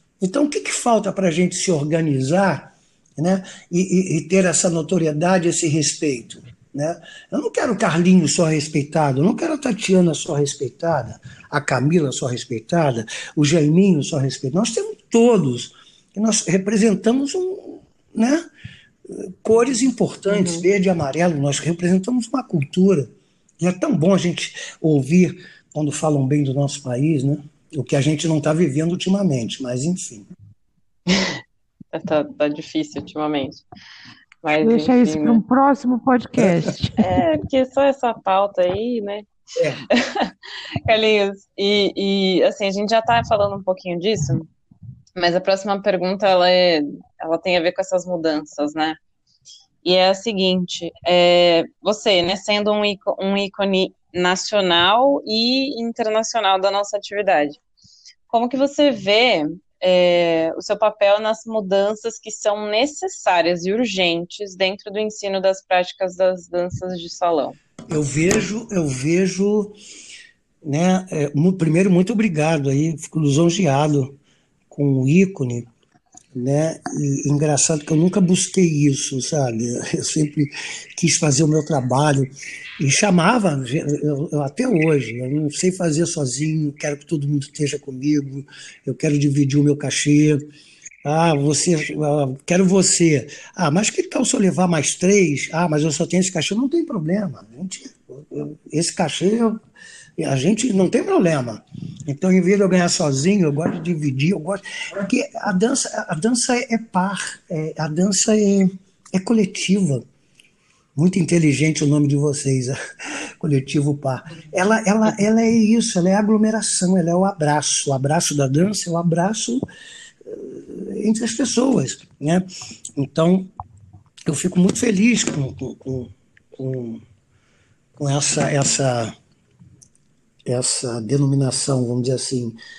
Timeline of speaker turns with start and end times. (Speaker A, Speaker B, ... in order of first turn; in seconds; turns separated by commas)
Speaker A: 0.2-18.4, Speaker A: 19.1-30.3, Speaker B: 20.3-20.6, Speaker B: 31.1-31.3, Speaker B: 31.9-33.6, Speaker B: 34.4-35.4, Speaker C: 34.6-37.0, Speaker B: 37.0-39.3, Speaker A: 39.6-39.8, Speaker B: 39.9-44.5, Speaker B: 45.1-49.0, Speaker B: 49.8-57.6, Speaker B: 58.3-67.5, Speaker A: 67.9-69.7, Speaker A: 70.6-74.1, Speaker A: 74.7-75.7, Speaker A: 76.3-90.4, Speaker A: 91.0-99.6, Speaker A: 100.2-110.0, Speaker A: 110.9-119.6, Speaker A: 120.2-122.5, Speaker A: 123.0-123.5, Speaker A: 124.3-127.0, Speaker A: 128.0-129.1, Speaker A: 130.5-132.6